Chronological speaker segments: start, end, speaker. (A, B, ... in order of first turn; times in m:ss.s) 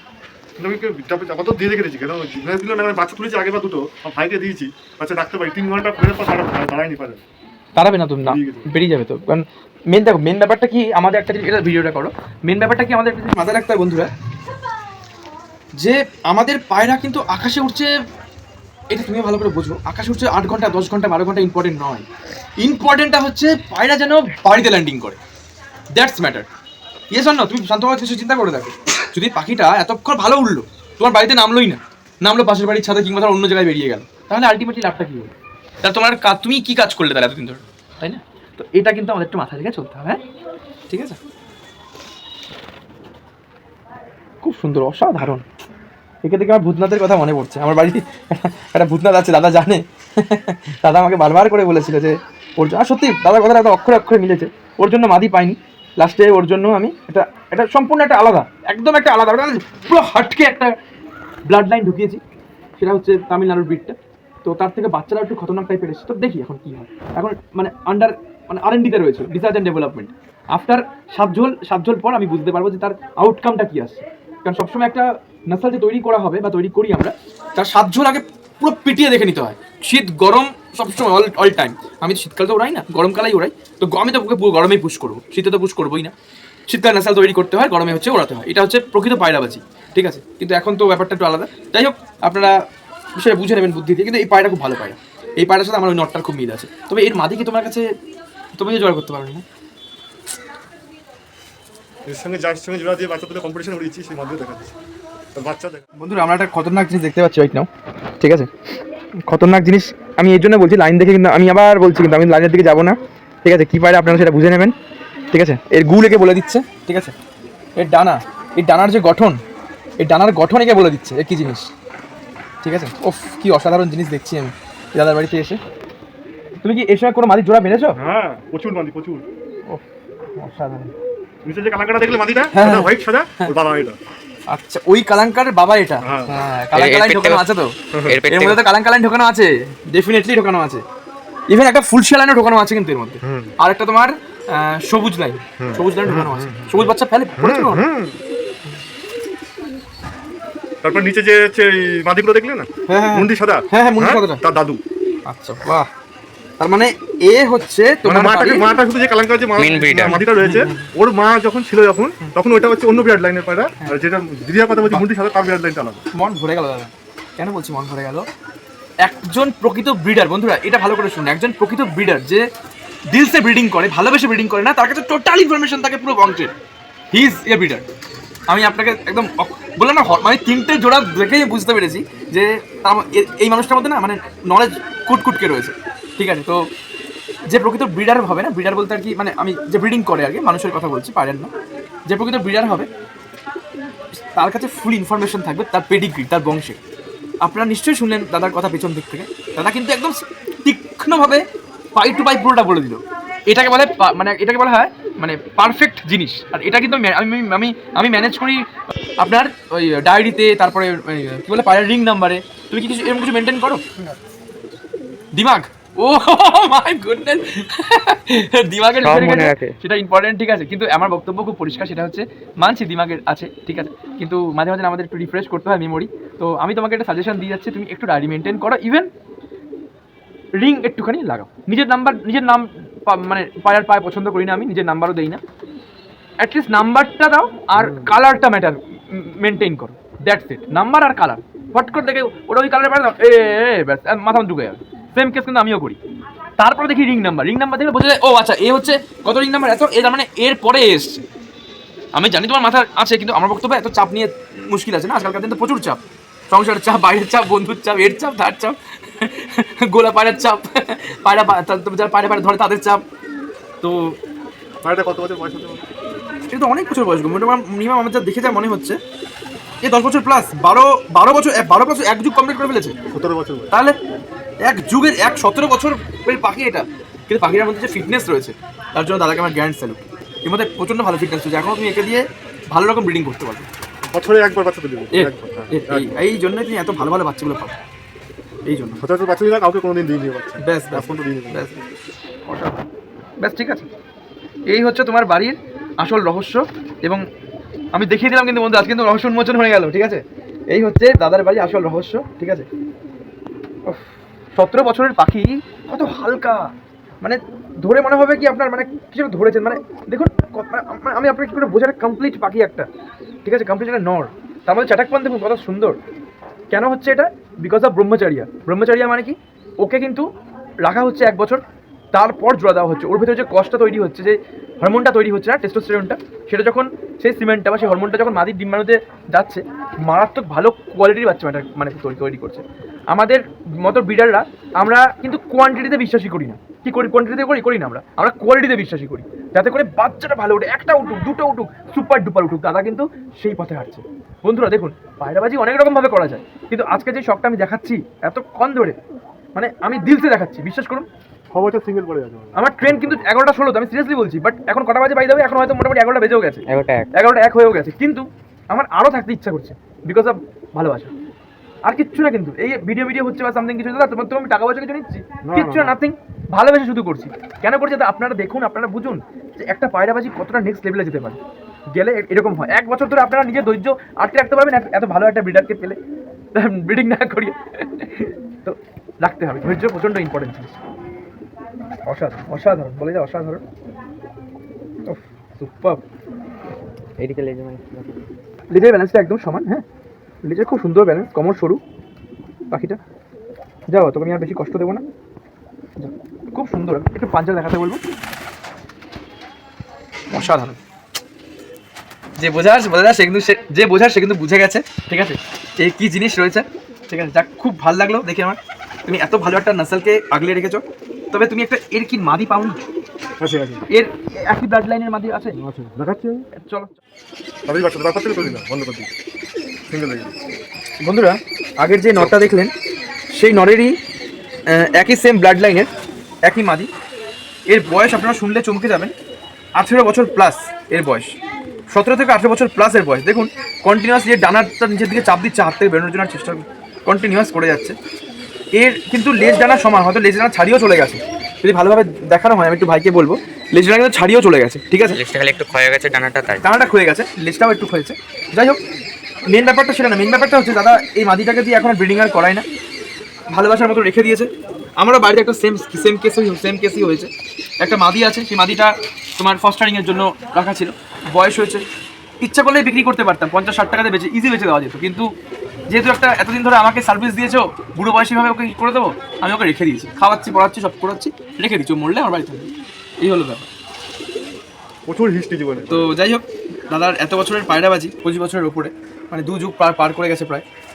0:00.6-0:07.2 A
0:07.8-0:14.1 B
0:08.2-0:08.7 A
0:15.8-0:17.9 B
0:18.9-0:22.0 B
0:22.6-0:25.2 B
0:25.9-0:26.5 B
0:27.1-0:35.3 B
0:35.8-0:40.2 B
0:40.9-0:41.2 B
0:44.4-0:45.4 B
0:46.2-1:00.7 B
1:01.4-1:02.2 B
1:02.8-1:26.1 B
1:26.7-1:32.6 B
1:33.2-1:37.9 B
1:38.6-1:39.4 B
1:42.1-1:44.7 A
1:45.3-1:45.8 A
1:45.9-1:47.7 B
1:48.2-1:48.5 B
1:49.2-1:54.7 B
1:55.3-1:57.1 B
1:57.8-1:59.4 B
2:00.0-2:01.7 B
2:02.6-2:05.6 B
2:06.6-2:08.0 B
2:08.0-2:09.2 A
2:09.7-2:10.9 B
2:11.4-2:14.0 A
2:12.5-2:13.0 B
2:14.5-2:17.8 B
2:16.0-2:16.4 A
2:16.7-2:17.5 C
2:17.9-2:18.2 A
2:18.0-2:18.6 C
2:18.3-2:20.8 B
2:21.5-2:27.9 B
2:23.2-2:23.5 A
2:25.6-2:28.2 A
2:30.8-2:34.8 A
2:32.9-2:34.4 B
2:35.2-2:35.9 B
2:36.6-2:38.7 B
2:38.0-2:46.0 A
2:39.6-2:40.2 C
2:40.1-2:40.9 B
2:46.1-2:48.2 B
2:49.0-2:52.4 B
2:53.1-2:56.5 B
2:57.1-2:57.8 B
2:58.5-3:06.6 B
3:07.5-3:11.5 B
3:12.1-3:12.9 B
3:14.1-3:16.8 B
3:17.4-3:33.8 B
3:35.3-3:49.1 B
3:39.0-3:39.7 C
3:50.6-3:55.4 B
3:56.4-4:06.0 B
3:57.8-3:58.1 A
4:06.6-4:11.2 B
4:12.1-4:23.0 B
4:23.8-4:24.2 B
4:24.8-4:25.9 A
4:26.5-4:29.0 B
4:29.8-4:33.0 B
4:33.1-4:33.7 A
4:34.6-4:43.7 B
4:44.1-4:46.2 A
4:45.1-4:47.7 B
4:48.6-4:49.0 B
4:49.0-4:51.7 A
4:50.6-4:51.8 B
4:52.4-4:52.8 B
4:53.4-4:53.9 B
4:54.7-4:57.2 B
4:57.9-5:02.7 B
5:03.8-5:12.9 B
5:13.4-5:16.0 B
5:16.7-5:20.3 B
5:20.8-5:49.0 B
5:49.5-5:51.1 B
5:51.5-5:53.2 A
5:52.5-6:01.1 B
5:56.7-5:57.1 C
6:01.8-6:11.4 B
6:05.4-6:06.0 A
6:11.9-6:16.0 B
6:16.5-6:20.8 B
6:22.1-6:23.6 B
6:25.1-6:26.0 B
6:27.2-6:28.1 C
6:28.7-6:29.8 B
6:30.4-6:31.8 B
6:32.7-6:33.0 B
6:33.9-6:35.0 B
6:36.0-6:38.0 B
6:40.3-6:40.8 B
6:42.4-6:52.9 B
6:53.4-6:53.8 A
6:53.9-6:55.6 B
6:55.5-6:56.5 A
6:56.5-6:57.0 B
6:57.7-6:59.1 A
6:59.9-7:00.4 A
7:01.0-7:02.7 B
7:02.1-7:02.5 A
7:03.3-7:04.0 B
7:04.7-7:05.9 B
7:06.4-7:06.9 B
7:07.7-7:09.1 B
7:09.8-7:11.4 B
7:11.9-7:18.0 B
7:18.7-7:25.2 B
7:25.1-7:26.6 C
7:26.6-7:28.8 B
7:29.5-7:32.6 B
7:33.5-7:41.8 B
7:42.4-7:45.3 B
7:45.9-7:52.7 B
7:53.2-7:53.7 B
7:55.1-7:56.1 A
7:55.9-8:00.6 B